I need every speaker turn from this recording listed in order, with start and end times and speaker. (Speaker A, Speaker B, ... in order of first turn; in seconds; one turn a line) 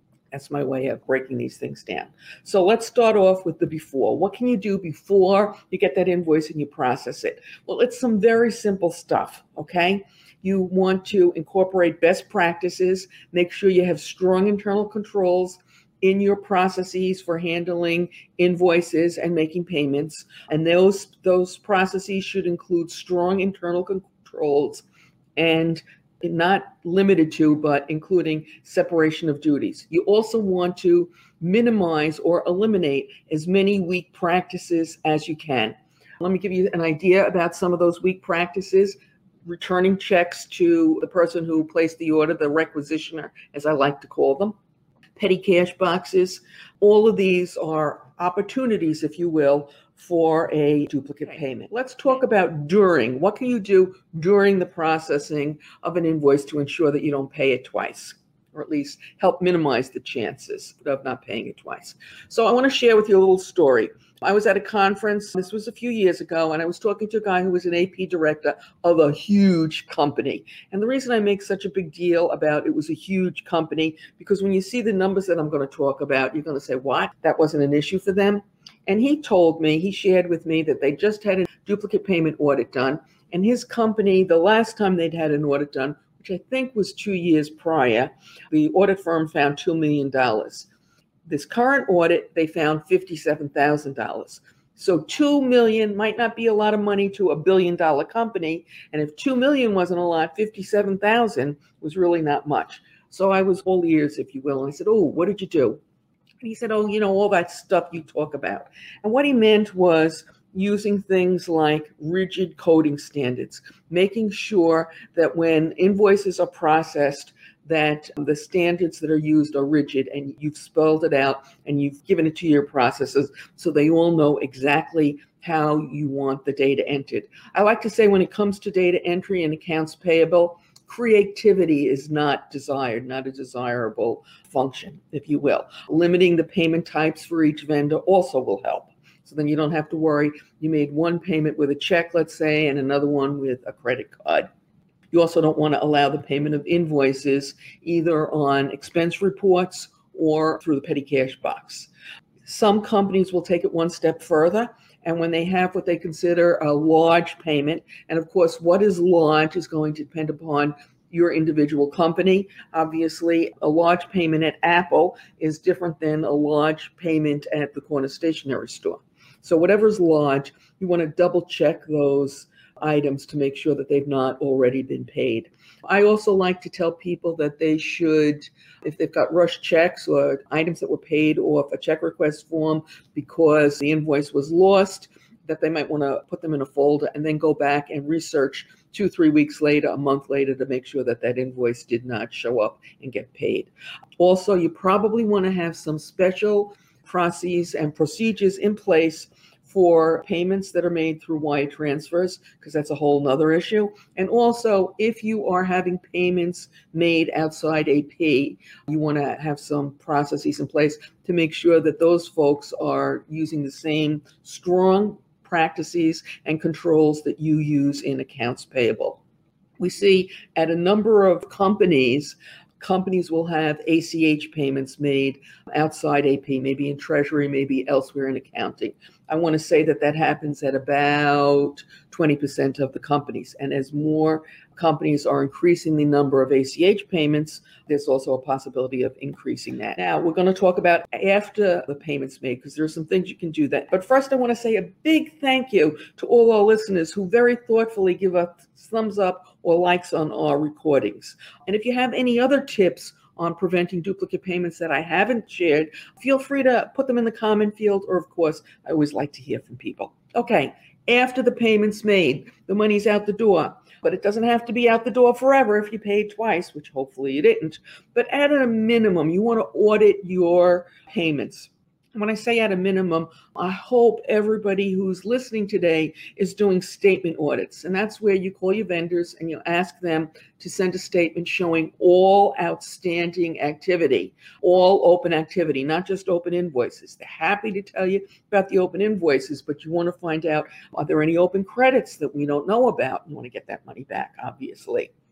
Speaker A: 0.3-24.8
Speaker A: 25.4-44.5
Speaker A: 45.2-90.7
Speaker A: 91.2-105.8
Speaker A: 106.4-144.5
Speaker A: 145.1-151.9
Speaker A: 152.4-219.2
Speaker A: 219.8-295.1